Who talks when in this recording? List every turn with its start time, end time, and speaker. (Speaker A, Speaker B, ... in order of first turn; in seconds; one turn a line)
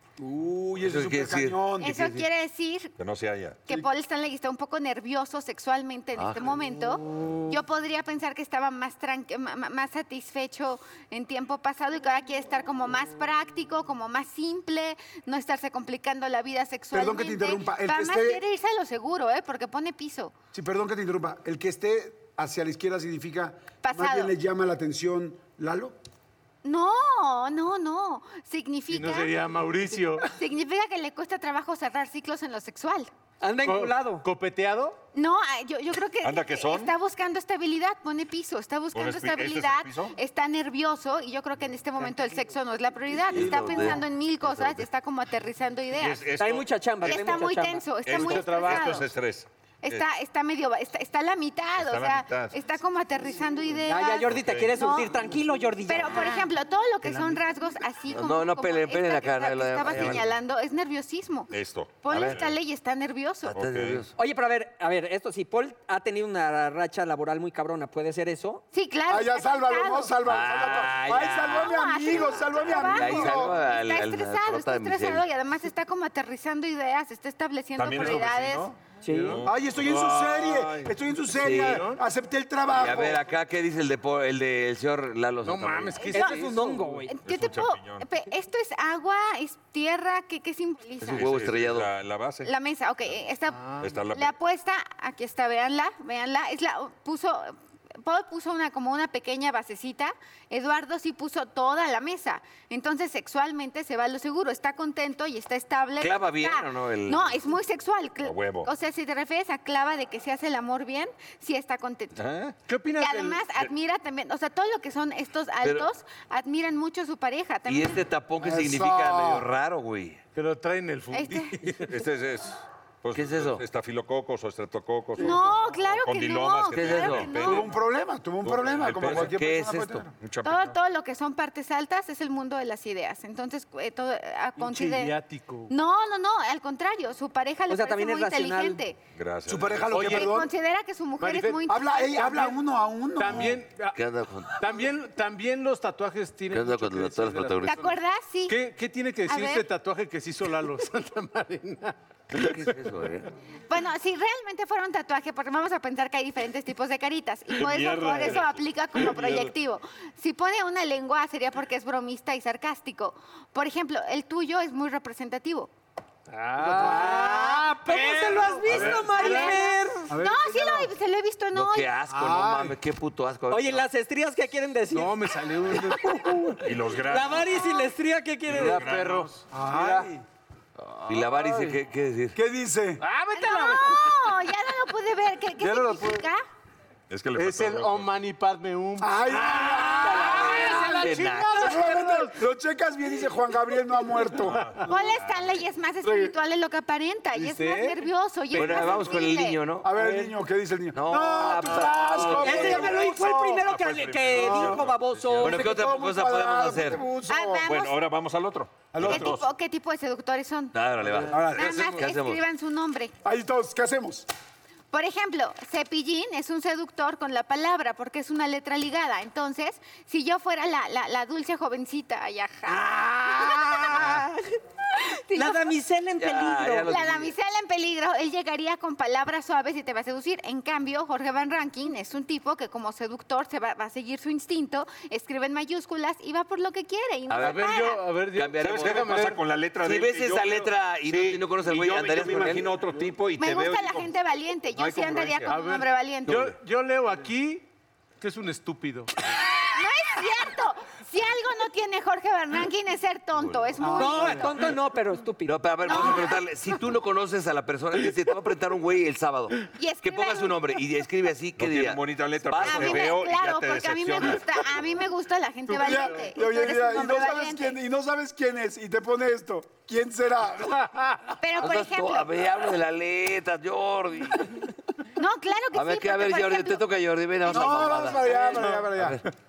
Speaker A: 0.2-1.9
Speaker B: 0.8-2.3
Speaker C: 1.8-2.9
Speaker D: 3.0-3.6
Speaker C: 3.7-20.3
Speaker B: 6.2-6.6
Speaker A: 16.9-18.4
Speaker A: 20.5-26.0
Speaker C: 23.8-24.4
Speaker C: 26.6-29.4
Speaker E: 28.9-30.3
Speaker C: 30.2-33.1
Speaker F: 33.4-34.3
Speaker E: 33.6-35.0
Speaker C: 35.1-46.3
Speaker D: 36.2-37.0
Speaker D: 38.9-40.1
Speaker B: 43.3-44.9
Speaker D: 46.0-47.4
Speaker F: 46.4-47.9
Speaker C: 47.0-49.1
Speaker D: 48.0-50.0
Speaker E: 48.1-49.0
Speaker C: 49.8-55.1
Speaker D: 51.8-52.6
Speaker F: 53.9-56.5
Speaker D: 54.3-54.7
Speaker C: 55.9-63.6
Speaker B: 58.1-60.2
Speaker D: 59.9-60.2
Speaker D: 61.5-62.5
Speaker B: 62.1-62.4
Speaker B: 63.4-64.1
Speaker D: 63.5-64.1
Speaker F: 64.2-68.6
Speaker C: 68.7-70.2
Speaker A: 69.1-73.6
Speaker B: 70.2-71.9
Speaker C: 71.4-78.8
Speaker B: 72.8-75.3
Speaker D: 77.8-81.0
Speaker F: 79.0-79.4
Speaker E: 79.1-79.5
Speaker A: 79.5-83.2
Speaker B: 81.3-81.9
Speaker E: 81.6-82.0
Speaker B: 82.7-86.0
Speaker E: 85.4-87.1
Speaker C: 86.0-86.5
Speaker F: 86.1-87.1
Speaker C: 87.1-91.3
Speaker D: 87.2-88.1
Speaker B: 91.0-91.9
Speaker D: 91.0-92.5
Speaker C: 92.4-112.2
Speaker E: 93.5-94.0
Speaker D: 93.8-94.3
Speaker B: 106.0-107.5
Speaker D: 108.2-108.7
Speaker D: 112.2-112.6
Speaker E: 112.7-113.5
Speaker C: 112.9-118.0
Speaker B: 115.6-115.9
Speaker B: 117.7-120.2
Speaker A: 118.4-119.5
Speaker E: 120.3-121.9
Speaker C: 121.1-121.6
Speaker D: 121.8-127.7
Speaker B: 123.1-123.6
Speaker C: 125.2-127.7
Speaker B: 126.7-127.4
Speaker A: 127.4-130.2
Speaker D: 128.4-129.4
Speaker B: 129.1-130.1
Speaker D: 130.2-130.8
Speaker C: 130.4-135.2
Speaker E: 134.6-135.7
Speaker C: 135.7-139.0
Speaker F: 137.7-138.8
Speaker D: 139.2-140.1
Speaker A: 139.5-140.5
Speaker E: 139.9-140.4
Speaker C: 140.0-142.6
Speaker E: 141.2-141.7
Speaker A: 141.7-143.6
Speaker E: 143.2-144.0
Speaker B: 143.9-144.7
Speaker E: 144.6-147.9
Speaker B: 146.5-147.9
Speaker C: 147.6-148.6
Speaker E: 148.5-152.7
Speaker C: 149.3-149.7
Speaker B: 152.3-153.3
Speaker C: 153.7-165.7
Speaker D: 157.5-159.5
Speaker E: 166.3-169.7
Speaker A: 166.6-167.1
Speaker F: 166.7-170.1
Speaker D: 168.7-169.2
Speaker C: 169.0-172.0
Speaker A: 170.1-170.9
Speaker B: 171.5-173.8
Speaker A: 172.1-172.8
Speaker F: 173.5-175.2
Speaker E: 174.9-176.6
Speaker F: 175.9-178.9
Speaker D: 176.6-177.6
Speaker D: 178.5-179.4
Speaker E: 178.5-180.1
Speaker A: 179.5-180.2
Speaker E: 181.0-181.8
Speaker B: 181.1-182.4
Speaker A: 182.3-183.0
Speaker E: 183.0-184.1
Speaker C: 183.3-186.4
Speaker E: 185.6-186.2
Speaker D: 187.1-188.2
Speaker E: 187.3-192.5
Speaker A: 189.0-191.0
Speaker B: 189.8-191.8
Speaker A: 191.5-194.7
Speaker D: 194.4-195.6
Speaker E: 194.5-194.9
Speaker C: 194.8-199.8
Speaker E: 196.1-196.3
Speaker E: 197.3-199.1
Speaker B: 198.5-199.9
Speaker A: 199.8-203.6
Speaker E: 200.0-200.3
Speaker B: 200.9-203.0
Speaker F: 202.4-205.6
Speaker D: 203.6-205.6
Speaker A: 204.4-204.8
Speaker B: 205.4-207.0
Speaker A: 205.4-207.7
Speaker C: 207.2-208.0
Speaker D: 207.7-209.4
Speaker A: 208.9-209.4
Speaker C: 209.0-210.8
Speaker B: 210.7-212.4
Speaker A: 211.3-211.8
Speaker C: 211.4-213.1
Speaker A: 213.2-214.3
Speaker C: 214.9-224.3
Speaker F: 222.7-224.4
Speaker C: 225.2-225.7
Speaker F: 225.3-226.9
Speaker B: 226.2-227.3
Speaker C: 226.9-238.1
Speaker B: 237.3-237.7
Speaker E: 237.4-239.5
Speaker B: 238.3-242.7
Speaker D: 238.6-244.1
Speaker C: 243.4-246.5
Speaker D: 244.7-245.6
Speaker E: 245.5-247.7
Speaker B: 246.3-246.5
Speaker E: 248.2-249.1
Speaker C: 249.6-254.5
Speaker A: 253.8-254.5
Speaker F: 253.8-256.0
Speaker B: 255.4-263.1
Speaker C: 255.8-256.4
Speaker C: 259.7-260.6
Speaker D: 261.6-264.9
Speaker C: 262.6-267.8
Speaker E: 265.7-266.3
Speaker A: 265.8-270.9
Speaker E: 270.8-271.1
Speaker C: 271.4-272.5
Speaker B: 271.6-274.7
Speaker C: 275.2-276.9
Speaker B: 275.7-279.2
Speaker A: 277.5-279.2
Speaker C: 277.5-277.8
Speaker E: 278.2-278.9